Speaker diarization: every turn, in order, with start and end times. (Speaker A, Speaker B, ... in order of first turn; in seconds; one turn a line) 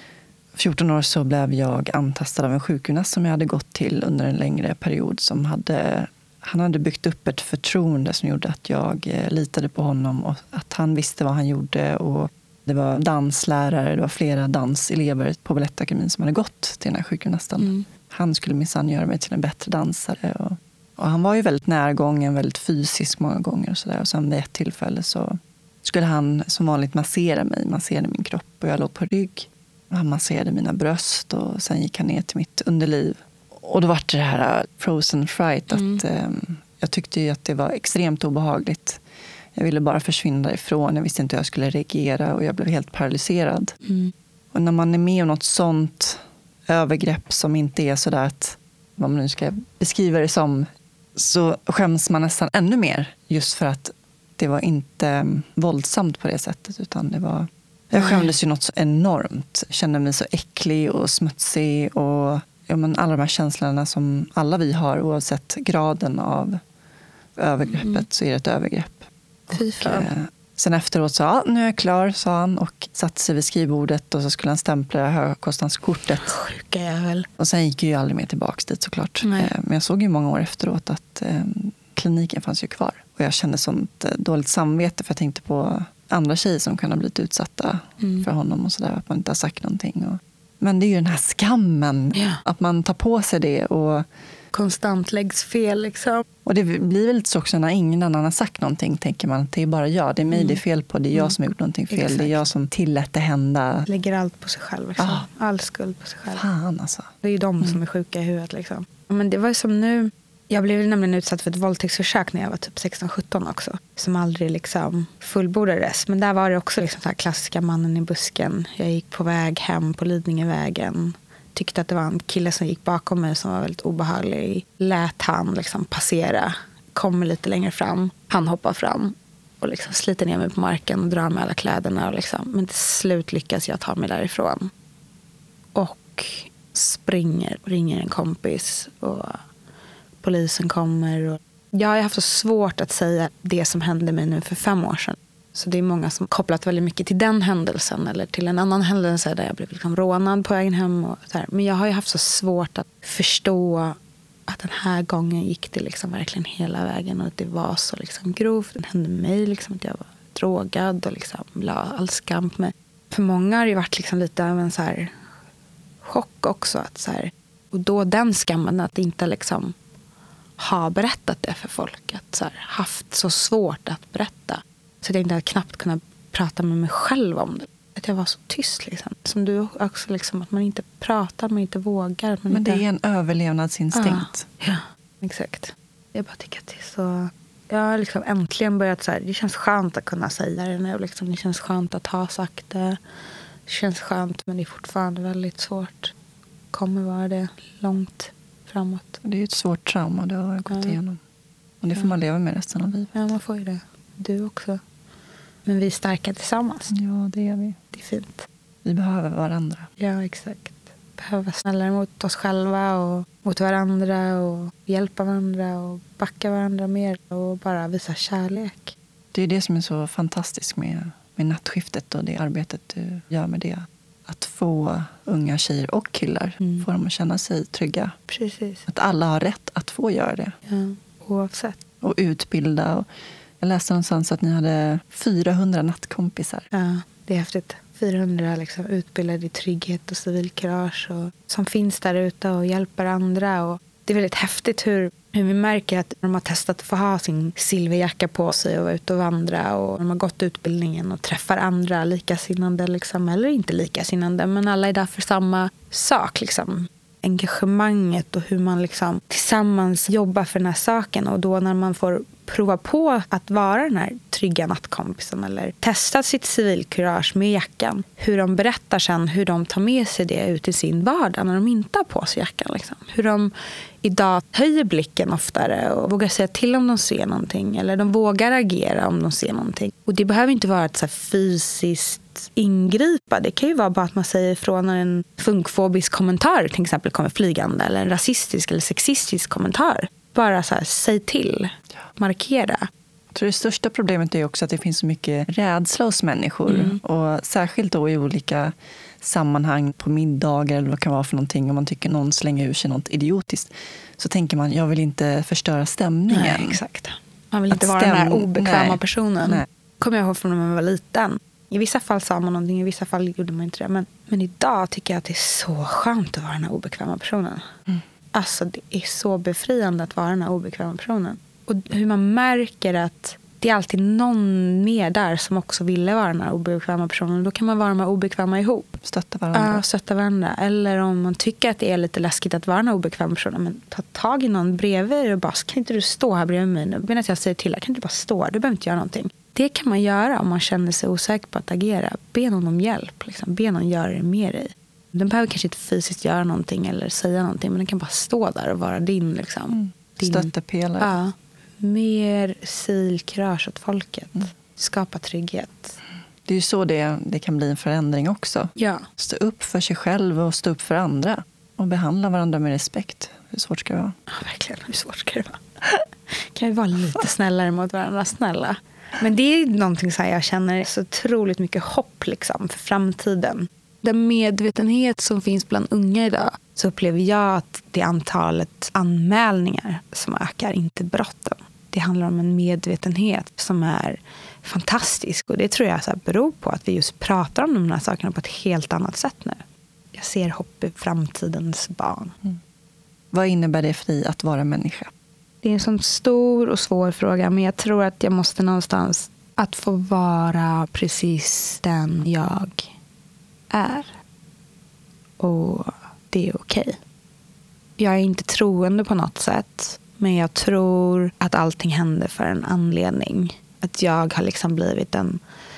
Speaker A: 0.6-39.0
Speaker B: 17.6-17.9
Speaker B: 35.7-36.0
Speaker A: 39.5-43.8
Speaker B: 43.9-44.1
Speaker A: 44.5-66.6
Speaker B: 58.0-58.3
Speaker A: 67.4-76.3
Speaker B: 67.7-68.0
Speaker B: 69.5-70.1
Speaker B: 76.2-77.3
Speaker A: 77.4-94.1
Speaker B: 79.2-79.5
Speaker B: 88.0-88.3
Speaker B: 92.1-92.4
Speaker B: 94.5-96.3
Speaker A: 96.5-103.9
Speaker B: 100.3-100.6
Speaker B: 101.9-102.5
Speaker B: 103.9-106.4
Speaker A: 105.0-105.3
Speaker A: 106.3-107.8
Speaker B: 107.2-134.7
Speaker B: 135.8-139.4
Speaker B: 140.2-165.1
Speaker B: 166.0-169.8
Speaker B: 170.6-182.8
Speaker A: 182.5-184.5
Speaker B: 183.9-193.0
Speaker B: 193.7-196.1
Speaker B: 196.7-199.2
Speaker A: 199.2-201.2
Speaker B: 200.7-201.0
Speaker A: 201.8-203.1
Speaker B: 203.1-204.8
Speaker B: 205.7-206.9
Speaker A: 206.9-207.8
Speaker B: 207.9-208.5
Speaker A: 208.8-209.9
Speaker B: 210.0-219.0
Speaker A: 219.3-228.2
Speaker B: 228.3-228.8
Speaker A: 228.9-230.5
Speaker B: 230.7-231.8
Speaker A: 232.0-233.1
Speaker A: 233.6-236.7
Speaker B: 236.7-273.5
Speaker B: 274.0-292.9
Speaker A: 293.3-306.8
Speaker B: 296.7-297.0
Speaker B: 306.3-317.6
Speaker A: 307.7-309.7
Speaker B: 318.3-329.0
Speaker A: 329.0-329.8
Speaker B: 329.5-356.0
Speaker A: 349.7-351.1
Speaker A: 356.4-364.2
Speaker B: 358.8-359.1
Speaker B: 364.3-365.6
Speaker B: 366.3-389.6
Speaker B: 390.1-392.4
Speaker A: 393.3-395.1
Speaker B: 395.6-402.9
Speaker B: 403.7-404.1
Speaker B: 405.4-407.0
Speaker B: 408.0-415.4